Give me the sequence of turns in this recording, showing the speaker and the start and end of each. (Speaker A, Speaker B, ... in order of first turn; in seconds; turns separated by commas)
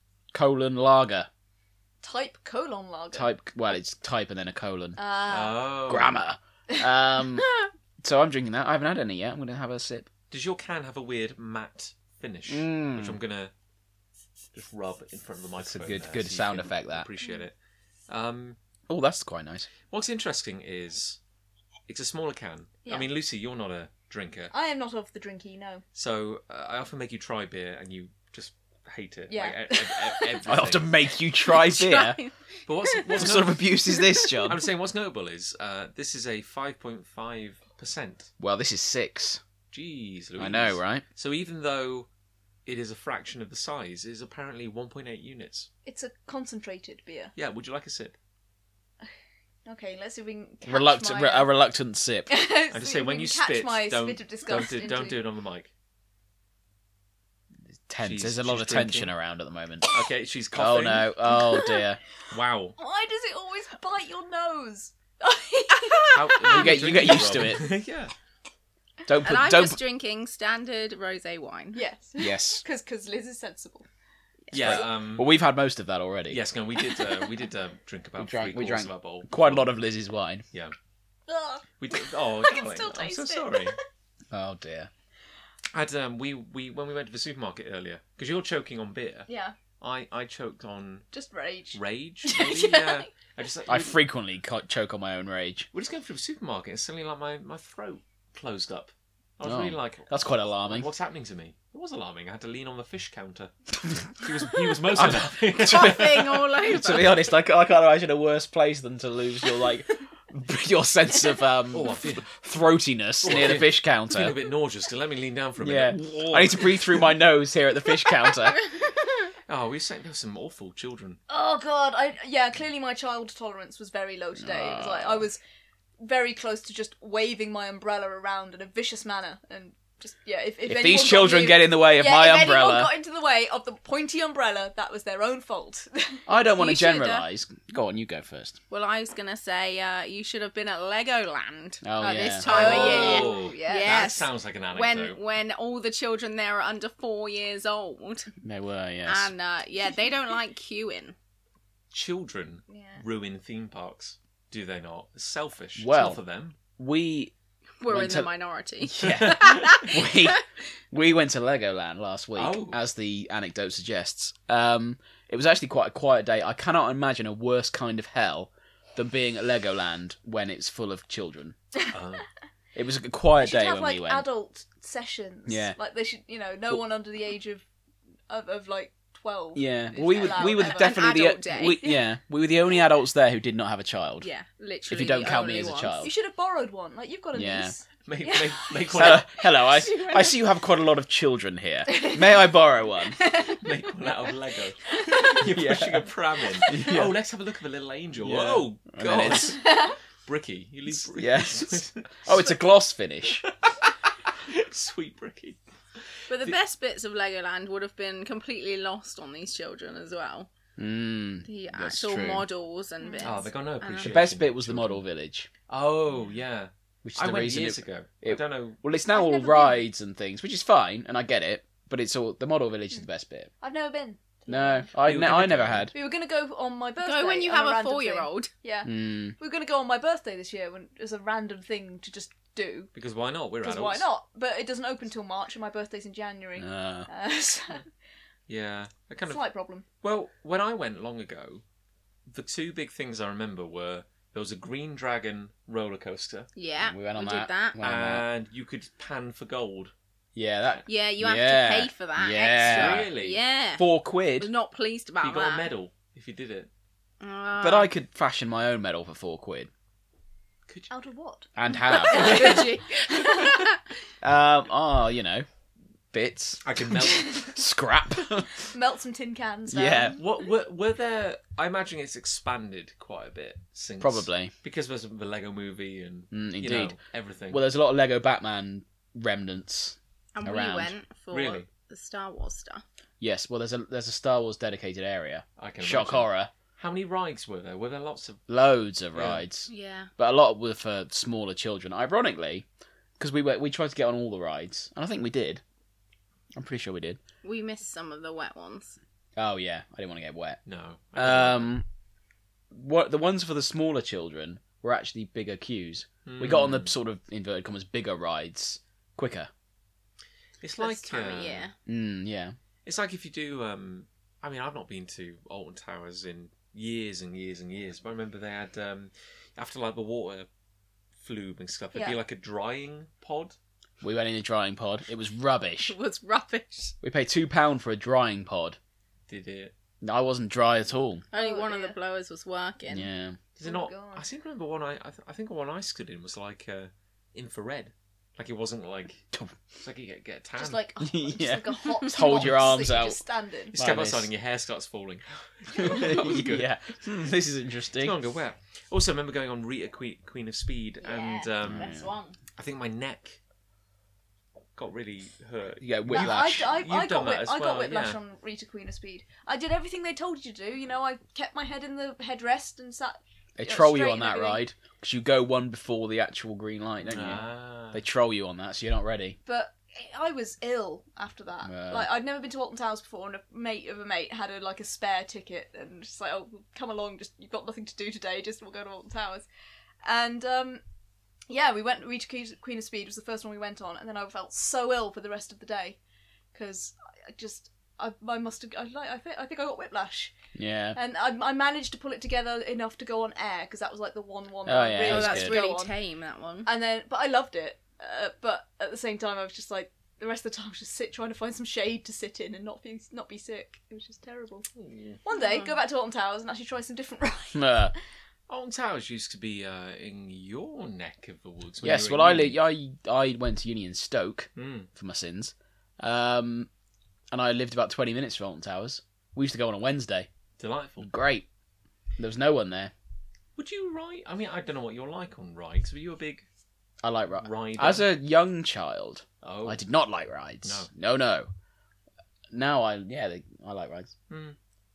Speaker A: 0.3-1.3, Speaker B: 2.0-3.3, Speaker A: 3.1-5.0, Speaker B: 5.0-5.7, Speaker C: 5.3-6.2, Speaker A: 5.9-7.5, Speaker A: 8.0-10.1, Speaker C: 10.3-13.5, Speaker A: 12.5-13.2, Speaker C: 14.5-17.5, Speaker A: 15.6-17.1, Speaker C: 18.1-18.6, Speaker A: 18.9-19.7, Speaker C: 19.9-21.2, Speaker C: 21.9-24.5, Speaker B: 22.8-23.1, Speaker B: 24.5-25.8, Speaker C: 25.9-30.9, Speaker B: 29.3-30.4, Speaker A: 30.4-32.2, Speaker D: 31.4-32.4, Speaker C: 32.6-33.6, Speaker D: 32.9-33.2, Speaker A: 33.1-34.7, Speaker D: 33.9-34.5, Speaker C: 34.4-38.3, Speaker A: 38.4-39.4, Speaker C: 39.7-42.1, Speaker A: 40.4-41.0, Speaker C: 42.6-45.7, Speaker B: 45.9-47.3, Speaker C: 47.4-48.1, Speaker B: 49.6-51.5, Speaker A: 50.6-52.3, Speaker B: 52.3-55.2, Speaker C: 52.7-55.7, Speaker A: 57.9-59.9, Speaker C: 58.0-59.1, Speaker C: 59.9-61.2, Speaker A: 60.5-62.0, Speaker B: 61.2-61.8, Speaker C: 62.3-62.8, Speaker B: 62.8-66.8, Speaker D: 65.8-66.4, Speaker C: 66.1-68.1, Speaker A: 66.4-67.7, Speaker A: 69.1-69.8, Speaker D: 69.1-71.8, Speaker B: 71.7-73.9, Speaker A: 72.2-72.6, Speaker C: 74.5-75.3, Speaker A: 74.5-76.4, Speaker C: 76.3-79.7, Speaker B: 76.8-77.3, Speaker A: 78.2-80.4, Speaker B: 81.3-83.8, Speaker C: 81.8-83.7, Speaker A: 84.3-84.9, Speaker C: 85.7-89.3, Speaker B: 89.3-89.5, Speaker C: 89.8-91.1, Speaker B: 91.1-93.1, Speaker C: 91.7-94.0, Speaker A: 93.7-95.7, Speaker C: 95.7-100.1, Speaker A: 99.4-100.9, Speaker C: 100.6-103.5, Speaker C: 104.1-106.5, Speaker A: 104.9-114.4, Speaker D: 105.6-107.2, Speaker C: 111.7-112.3, Speaker C: 113.2-117.2, Speaker A: 115.6-118.6, Speaker C: 119.5-121.2, Speaker B: 121.3-125.4, Speaker A: 124.4-125.2, Speaker B: 126.0-136.3, Speaker A: 130.7-132.9, Speaker A: 136.3-138.6, Speaker D: 136.4-137.3, Speaker D: 138.7-148.3, Speaker A: 141.8-142.8, Speaker B: 142.4-144.0, Speaker C: 142.4-145.2, Speaker A: 148.4-149.3, Speaker D: 149.1-151.2, Speaker C: 151.9-156.6, Speaker B: 152.7-153.0, Speaker A: 155.8-156.2, Speaker A: 156.8-157.3, Speaker D: 157.8-160.4, Speaker A: 157.9-158.3, Speaker A: 158.8-171.6, Speaker C: 162.3-162.8, Speaker C: 171.9-172.2, Speaker A: 172.7-174.2, Speaker B: 173.4-177.7, Speaker A: 175.5-175.8, Speaker B: 178.3-181.0, Speaker A: 179.6-184.3, Speaker D: 180.1-181.8, Speaker B: 181.8-182.1, Speaker D: 184.2-186.1, Speaker A: 184.9-186.1, Speaker B: 186.0-189.1, Speaker A: 187.3-187.7, Speaker C: 188.1-189.3, Speaker A: 188.9-193.2, Speaker D: 189.4-190.4, Speaker B: 191.9-192.2, Speaker D: 193.3-193.6, Speaker C: 193.6-202.6, Speaker A: 195.4-196.1, Speaker A: 196.6-197.2, Speaker A: 198.2-199.6, Speaker B: 199.6-199.9, Speaker A: 200.9-203.4, Speaker C: 204.5-205.6, Speaker C: 206.2-206.6, Speaker D: 206.3-210.5, Speaker A: 210.8-212.5, Speaker D: 211.4-214.2, Speaker B: 213.0-213.5, Speaker C: 213.2-215.0, Speaker A: 214.0-215.5, Speaker C: 215.7-218.8, Speaker A: 217.0-223.5, Speaker B: 219.1-219.9, Speaker B: 223.6-224.9, Speaker A: 224.5-225.9, Speaker C: 225.0-225.9, Speaker B: 225.9-232.9, Speaker D: 227.0-228.5, Speaker A: 228.8-229.3, Speaker C: 232.9-234.1, Speaker B: 233.6-237.8, Speaker A: 236.6-237.1, Speaker C: 238.5-239.4, Speaker B: 239.3-239.8, Speaker C: 240.0-241.6, Speaker C: 242.3-246.5, Speaker D: 246.6-247.8, Speaker A: 246.8-248.2, Speaker C: 247.8-249.9, Speaker A: 250.3-253.1, Speaker D: 250.8-255.7, Speaker C: 252.6-253.4, Speaker A: 253.8-254.5, Speaker C: 255.2-256.7, Speaker D: 257.2-257.9, Speaker A: 257.6-259.7, Speaker B: 260.9-261.5, Speaker A: 261.6-262.6, Speaker D: 261.7-263.8, Speaker B: 262.1-263.4, Speaker C: 262.1-262.7, Speaker A: 264.2-265.4, Speaker A: 266.1-268.6, Speaker C: 266.6-267.6, Speaker B: 268.7-270.2, Speaker A: 269.7-270.2, Speaker C: 270.1-277.6, Speaker A: 274.0-274.5, Speaker A: 276.3-277.0, Speaker A: 277.5-280.9, Speaker D: 280.3-282.8, Speaker C: 281.3-281.7, Speaker A: 283.2-286.5, Speaker C: 285.6-288.4, Speaker A: 288.5-292.6, Speaker C: 289.1-289.4, Speaker D: 289.7-290.1, Speaker A: 293.2-295.6, Speaker A: 296.6-297.2, Speaker D: 297.4-299.0, Speaker A: 299.4-300.6, Speaker C: 300.6-301.7, Speaker A: 301.1-301.9, Speaker A: 302.7-309.5, Speaker C: 306.2-306.9, Speaker C: 310.6-311.7, Speaker D: 310.8-311.7, Speaker A: 311.9-312.6, Speaker C: 312.8-320.5, Speaker C: 321.2-323.6, Speaker A: 324.0-325.9, Speaker D: 325.8-326.9, Speaker A: 327.0-328.8, Speaker C: 329.3-329.7, Speaker A: 330.0-331.2, Speaker D: 331.3-333.1, Speaker B: 331.3-332.0, Speaker A: 332.9-333.4, Speaker C: 333.6-339.2, Speaker B: 333.6-334.2, Speaker A: 339.3-339.6, Speaker C: 339.8-340.8, Speaker B: 340.6-343.8, Speaker A: 341.0-343.2, Speaker C: 342.4-342.7, Speaker C: 343.7-346.7, Speaker A: 343.7-344.3, Speaker A: 345.7-348.2, Speaker C: 348.0-352.0, Speaker D: 351.0-352.4, Speaker A: 351.6-352.1, Speaker C: 352.6-353.4, Speaker C: 354.7-358.2, Speaker A: 355.8-356.8, Speaker B: 356.1-364.6, Speaker A: 363.6-369.4, Speaker C: 367.0-368.0, Speaker B: 369.4-379.5, Speaker A: 371.6-372.1, Speaker B: 380.0-380.8, Speaker B: 381.5-386.0, Speaker B: 386.5-390.3, Speaker A: 390.5-391.0, Speaker B: 390.9-395.9, Speaker A: 394.7-395.6, Speaker D: 395.1-396.7, Speaker B: 396.6-404.6, Speaker C: 404.7-405.2, Speaker B: 405.2-407.9, Speaker D: 405.3-405.8, Speaker A: 407.5-407.9, Speaker C: 408.5-412.6, Speaker A: 411.8-416.7, Speaker C: 414.6-414.9, Speaker A: 417.3-420.3, Speaker C: 420.6-421.1, Speaker A: 421.0-421.4, Speaker A: 422.2-422.9, Speaker C: 423.6-426.4, Speaker A: 427.0-431.5, Speaker C: 427.4-428.1, Speaker C: 429.4-429.8, Speaker C: 430.6-430.9, Speaker A: 432.5-434.1, Speaker C: 434.3-434.6